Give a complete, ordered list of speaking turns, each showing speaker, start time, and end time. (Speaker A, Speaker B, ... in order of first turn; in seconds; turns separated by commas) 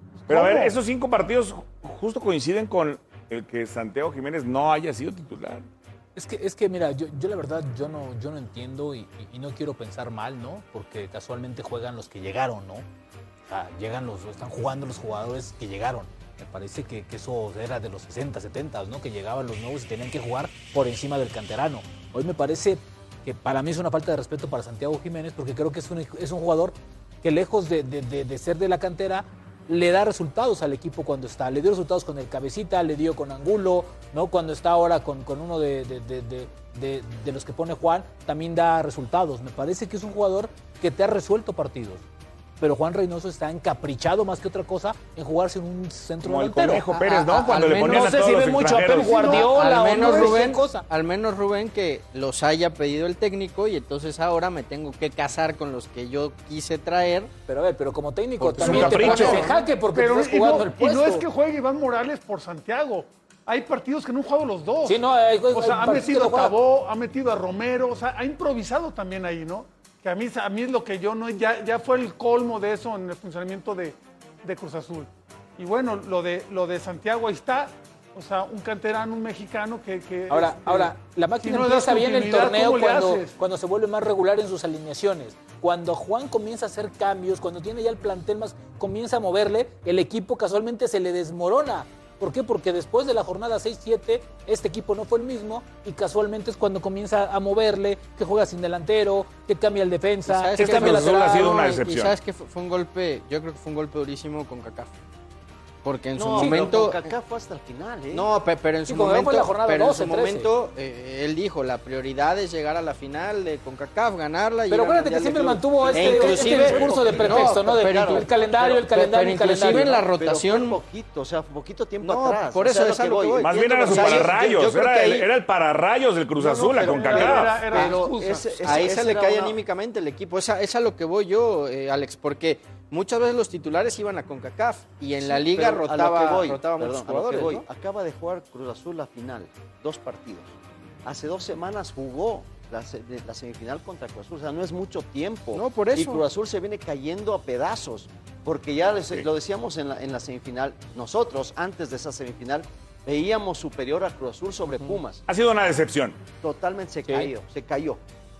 Speaker A: 0.1-0.8, Speaker B: 0.3-5.7, Speaker C: 6.2-12.8, Speaker C: 13.5-42.0, Speaker C: 42.6-50.9, Speaker B: 46.2-49.4, Speaker D: 46.9-48.1, Speaker A: 49.1-49.4, Speaker D: 49.2-57.3, Speaker A: 49.9-50.4, Speaker C: 57.5-61.3, Speaker B: 58.5-59.5, Speaker D: 58.6-59.5, Speaker A: 58.7-83.3, Speaker C: 64.8-66.5, Speaker C: 80.3-101.5, Speaker D: 100.2-104.9, Speaker B: 100.6-102.1, Speaker D: 105.8-107.1, Speaker E: 106.2-108.3, Speaker C: 106.4-106.7, Speaker D: 108.1-120.8, Speaker C: 108.9-110.5, Speaker C: 114.7-120.0, Speaker E: 115.8-118.3, Speaker B: 116.7-116.9, Speaker E: 119.7-124.5, Speaker D: 122.0-125.3, Speaker B: 123.4-127.7, Speaker E: 126.3-129.6, Speaker A: 126.8-128.8, Speaker D: 128.6-137.6, Speaker E: 135.2-155.2, Speaker D: 145.5-146.2, Speaker B: 155.3-156.2, Speaker E: 156.4-158.0